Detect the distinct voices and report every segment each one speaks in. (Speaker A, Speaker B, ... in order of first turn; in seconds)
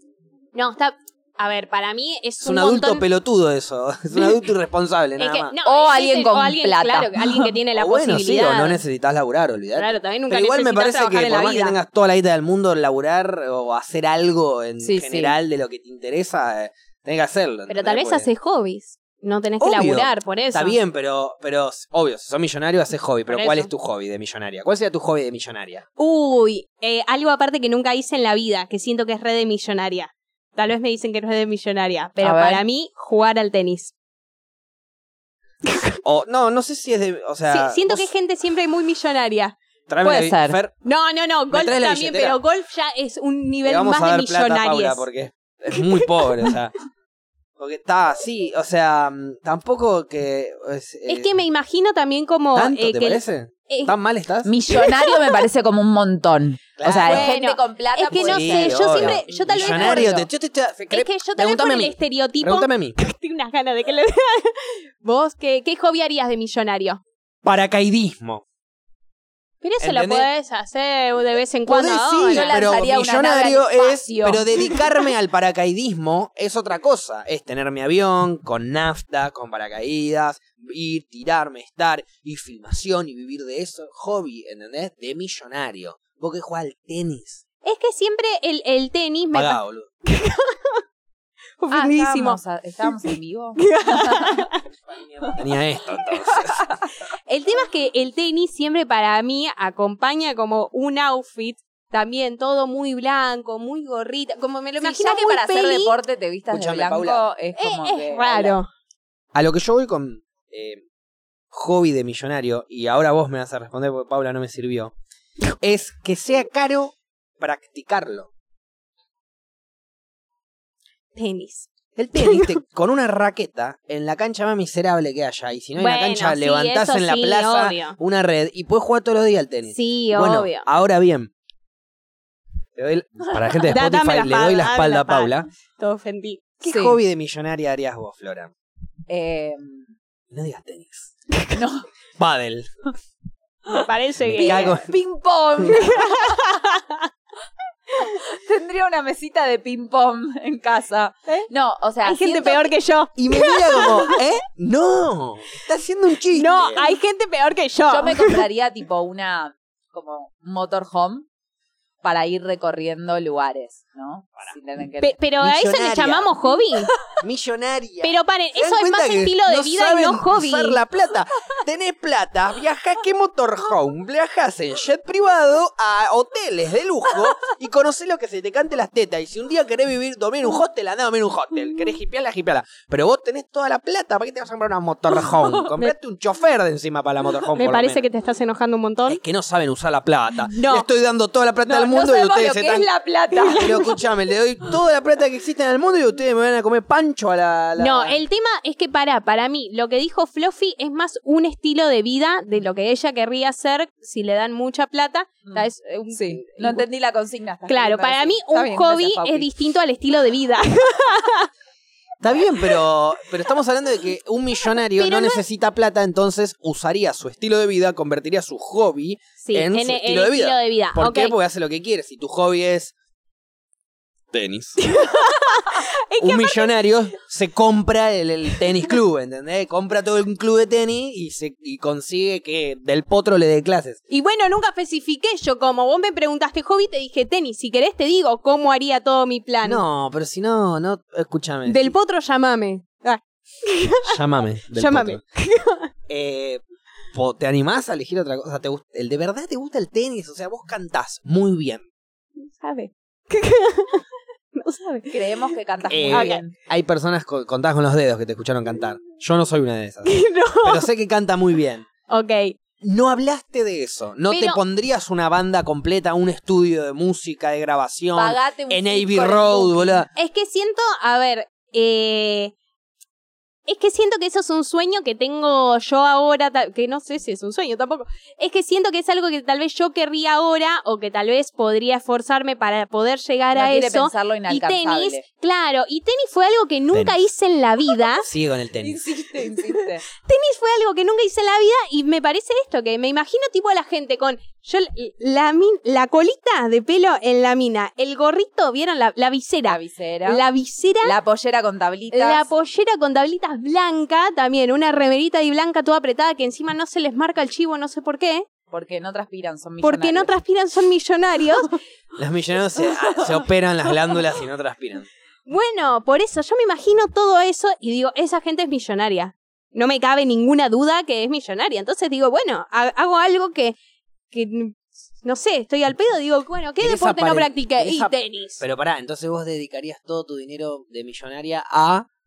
Speaker A: 0.5-3.0, 5.2-8.8, 9.8-11.8, 17.7-20.8, 23.3-23.7, 26.0-33.9, 37.5-39.5, 40.8-45.1, 45.9-46.5, 51.1-53.9, 54.7-55.4, 56.9-60.2, 60.9-67.0, 69.6-72.5, 87.6-90.8, 91.6-95.4, 97.3-106.0, 107.6-108.7, 121.2-122.5, 125.8-128.0, 129.7-130.7, 133.7-136.4, 143.7-144.7, 145.8-147.0, 152.0-154.2, 156.3-158.4, 165.0-166.9, 168.0-170.8, 187.6-189.2, 190.5-190.8, 193.3-193.9, 197.8-206.8, 207.7-211.5, 215.0-215.4, 219.4-221.3, 224.8-226.7, 234.1-239.8, 241.7-244.2, 244.7-245.9, 252.4-255.2, 256.1-256.4, 260.1-260.9, 262.1-262.6, 264.3-264.6, 270.1-272.5, 273.7-288.3, 289.7-301.1, 302.1-308.4, 309.8-311.8, 315.5-323.8, 324.3-328.6
Speaker B: 2.4-5.5, 7.7-18.3, 19.6-25.9, 36.0-38.1, 39.9-40.7, 41.5-42.4, 43.6-46.8, 47.6-51.3, 52.5-54.5, 56.8-57.3, 58.2-63.0, 67.4-68.4, 69.8-70.3, 71.7-87.4, 89.3-89.9, 95.3-96.8, 106.5-107.2, 109.3-110.8, 111.5-115.0, 115.6-118.3, 122.0-131.3, 132.8-135.5, 136.6-138.5, 140.3-141.1, 142.2-142.7, 144.3-144.9, 153.2-156.8, 165.4-166.3, 167.2-188.0, 189.1-192.9, 193.5-198.2, 212.2-222.9, 224.3-224.8, 226.2-234.0, 239.6-241.9, 244.0-245.2, 246.1-251.8, 255.9-261.9, 262.8-270.1, 288.2-289.2, 312.2-315.1, 326.8-332.1
Speaker C: 5.7-7.5, 14.8-15.3, 32.2-32.6, 40.0-40.6, 54.5-60.3, 72.3-74.8, 91.7-94.5, 104.8-108.6, 133.2-133.7, 136.7-137.0, 139.1-139.9, 141.5-141.9, 144.3-146.4, 148.2-152.7, 157.9-161.3, 162.0-165.2, 191.6-193.9, 205.5-209.5, 255.1-256.5, 268.1-270.1, 283.6-285.2, 288.8-290.0, 299.6-300.4, 301.0-302.5, 308.7-310.3